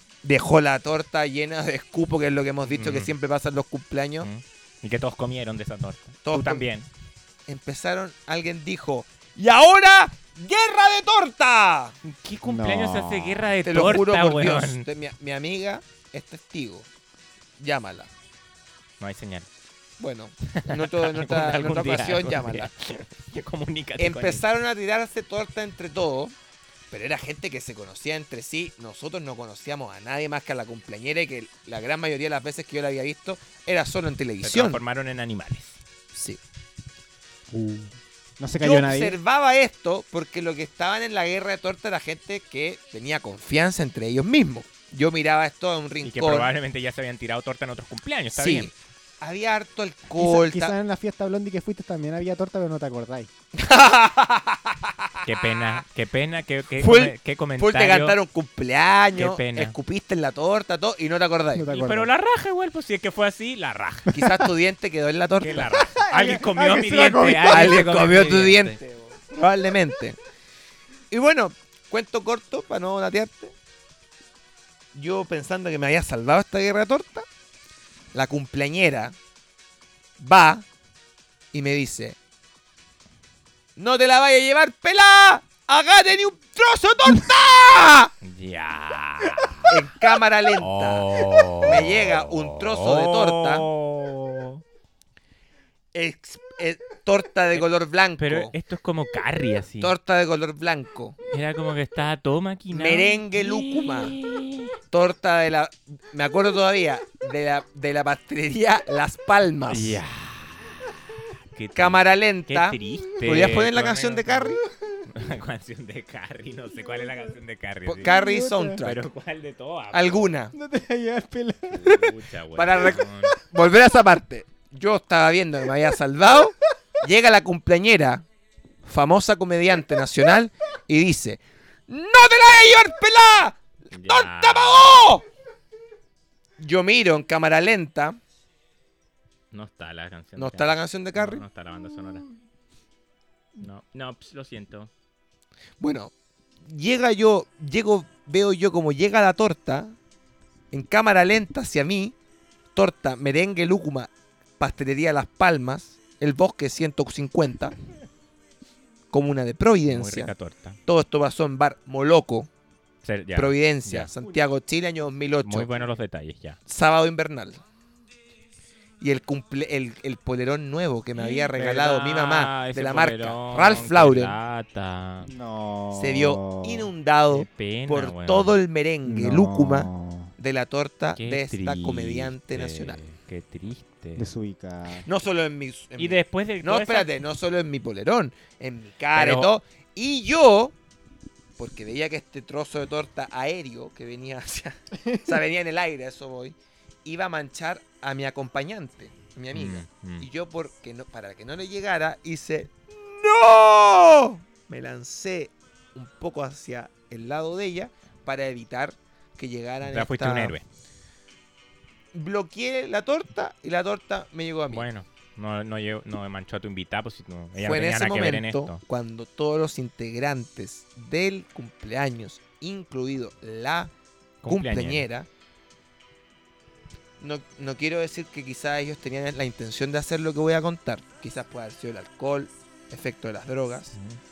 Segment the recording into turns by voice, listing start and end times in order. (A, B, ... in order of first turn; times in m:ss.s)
0:00.2-0:04.3 A
0:02.7-0:03.1 B
0:04.2-0:06.9 B
0:06.2-0:06.7 A
0:07.5-0:12.0 A
0:12.0-0:14.9 B
0:12.4-0:13.5 C
0:13.6-0:16.9 A
0:17.6-0:18.1 A
0:19.0-0:19.5 B
0:20.0-0:22.7 A
0:20.5-0:24.4 B
0:24.0-0:26.3 A
0:26.9-0:34.8 A
0:34.4-0:35.8 B
0:36.1-0:36.4 A
0:37.5-0:39.2 C
0:38.6-0:46.5 A
0:46.0-0:48.7 B
0:48.3-0:50.8 A
0:50.2-0:53.3 C
0:53.6-0:55.8 A
0:55.2-0:58.2 B
0:56.8-1:01.8 A
0:59.2-0:59.8 B
1:01.6-1:02.1 C
1:01.7-1:04.1 B
1:04.1-1:04.4 C
1:04.1-1:05.8 A
1:05.4-1:08.8 B
1:05.7-1:07.9 C
1:07.5-1:10.2 A
1:11.1-1:13.5 A
1:14.9-1:17.3 A
1:18.1-1:19.2 A
1:20.2-1:20.6 A
1:21.5-1:22.2 A
1:23.8-1:28.1 A
1:28.2-1:29.8 B
1:29.7-1:33.7 A
1:30.6-1:34.6 B
1:35.9-1:38.6 A
1:38.2-1:40.0 B
1:39.8-1:41.2 A
1:41.3-1:44.8 B
1:42.7-1:44.2 A
1:44.9-1:50.0 A
1:49.7-1:50.9 B
1:51.5-1:58.1 B
1:51.7-1:54.6 A
1:57.9-1:59.0 A
1:58.0-1:58.8 C
1:58.8-2:00.3 B
1:59.9-2:00.5 A
2:00.5-2:01.9 C
2:01.7-2:03.4 B
2:02.6-2:08.2 A
2:08.8-2:15.2 A
2:13.9-2:14.9 B
2:16.6-2:18.2 A
2:19.5-2:22.3 B
2:20.4-2:21.4 A
2:23.6-2:24.9 B
2:25.8-2:26.1 A
2:26.6-2:30.0 A
2:30.7-2:32.2 A
2:32.8-2:37.8 A
2:39.1-2:40.3 A
2:39.9-2:40.8 B
2:40.9-2:42.5 A
2:43.0-2:44.1 B
2:43.4-2:45.7 A
2:45.4-2:46.6 B
2:46.7-2:47.6 A
2:49.0-2:54.4 A
2:51.2-2:55.3 B
2:55.2-2:56.9 C
2:55.9-3:03.0 A
2:57.3-2:58.6 B
2:59.0-3:00.3 C
3:01.2-3:04.3 B
3:04.2-3:05.1 C
3:05.0-3:10.8 A
3:06.0-3:07.1 B
3:09.2-3:09.5 B
3:11.6-3:30.6 A
3:19.5-3:20.3 B
3:29.8-3:30.7 B
3:32.1-3:34.9 A
3:34.7-3:38.8 B
3:37.6-3:43.9 A
3:44.4-3:45.0 B
3:44.5-3:45.3 A
3:47.2-3:54.0 A